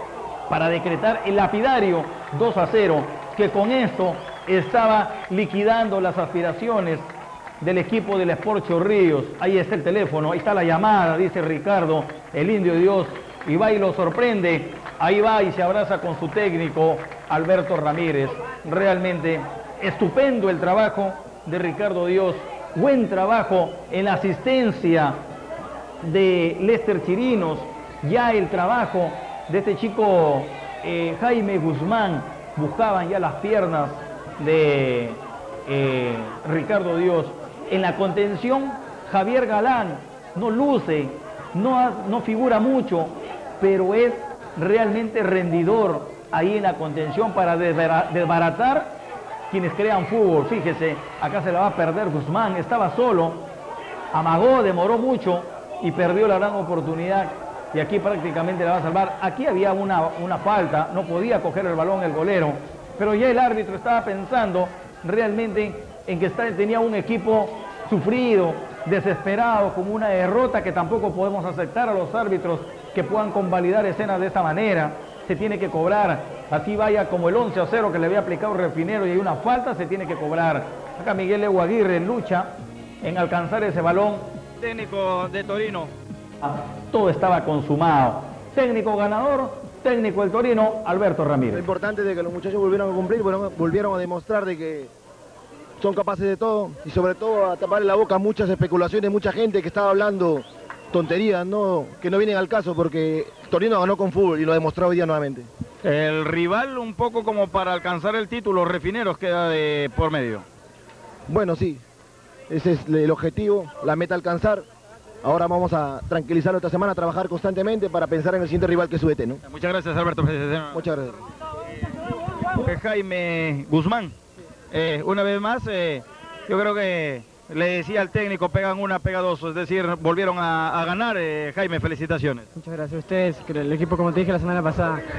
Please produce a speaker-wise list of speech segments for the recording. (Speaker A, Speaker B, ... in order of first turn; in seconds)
Speaker A: 0.5-25.2, 26.0-49.0, 49.5-53.5, 54.1-84.3, 86.4-91.7
Speaker B: 84.6-85.9, 105.8-110.5, 119.5-120.9, 122.6-124.2, 124.7-132.5
Speaker C: 91.5-94.9, 95.8-105.5, 111.3-111.8, 112.5-114.7, 115.2-119.4, 120.7-121.2
Speaker D: 132.6-135.0